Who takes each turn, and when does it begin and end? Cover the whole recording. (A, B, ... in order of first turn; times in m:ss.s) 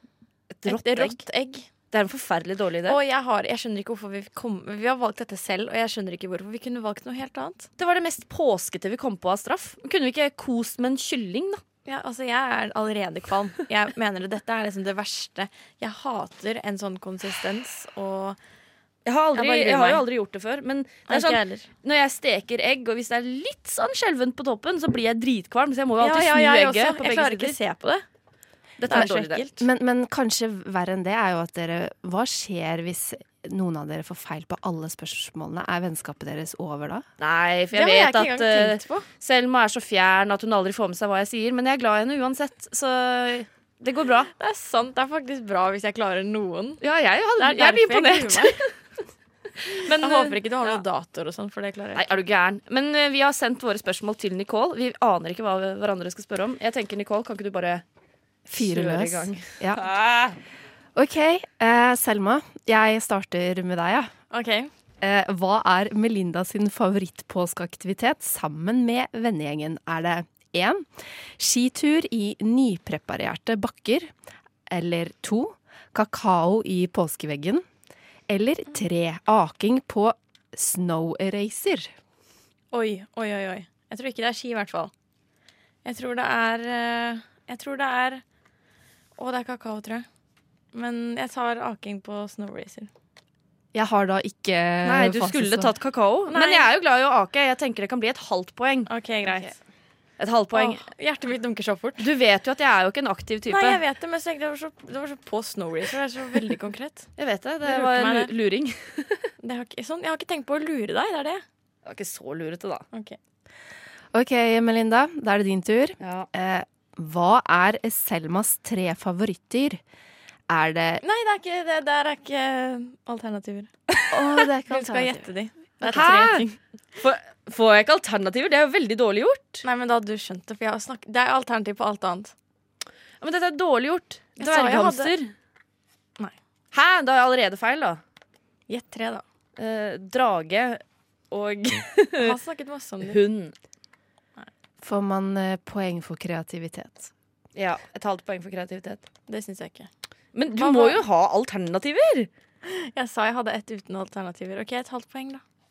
0:00.5-0:01.2 A
0:00.6-0:01.7 B
0:01.9-0:03.0 A
0:02.9-0:07.7 B
0:07.8-0:11.6 A
0:11.8-0:18.4 B
0:19.0-0:27.6 A
0:19.3-0:20.0 B
0:21.1-0:21.7 B
0:26.0-0:28.0 B
0:28.8-0:29.4 A
0:28.9-0:29.6 B
0:29.6-0:37.0 C
0:37.2-0:44.3 A
0:37.7-0:39.1 B
0:44.4-0:46.8 B
0:46.8-0:48.6 A
0:47.4-0:48.6 B
0:49.6-0:50.8 A
0:49.7-0:52.0 B
0:51.9-0:57.8 A
0:58.5-0:59.9 C
0:58.5-1:00.4 A
1:00.9-1:04.1 C
1:04.3-1:04.7 B
1:05.0-1:10.9 C
1:11.4-1:14.1 C
1:14.7-1:17.6 C
1:18.3-1:21.9 C
1:22.7-1:24.9 B
1:25.8-1:28.2 B
1:29.2-1:30.0 B
1:30.7-1:32.9 B
1:33.7-1:35.7 C
1:34.8-1:39.5 A
1:36.3-1:36.7 B
1:38.9-1:39.6 B
1:40.2-1:40.8 A
1:40.5-1:42.0 B
1:42.0-1:43.8 A
1:43.5-1:47.1 B
1:47.2-1:49.3 A
1:47.6-1:48.3 B
1:49.4-1:51.4 B
1:51.8-1:52.8 A
1:54.1-1:59.8 C
1:56.0-1:56.3 A
2:00.5-2:01.0 C
2:01.0-2:03.7 B
2:04.1-2:05.2 C
2:04.7-2:06.6 B
2:05.9-2:09.6 A
2:09.6-2:12.3 B
2:13.2-2:15.3 A
2:14.4-2:15.1 B
2:16.7-2:18.0 A
2:18.7-2:19.2 B
2:19.6-2:22.3 A
2:22.2-2:23.2 B
2:23.0-2:23.5 A
2:24.8-2:27.1 C
2:27.6-2:29.0 A
2:29.3-2:29.9 B
2:30.3-2:32.3 A
2:30.6-2:31.0 B
2:32.6-2:35.4 B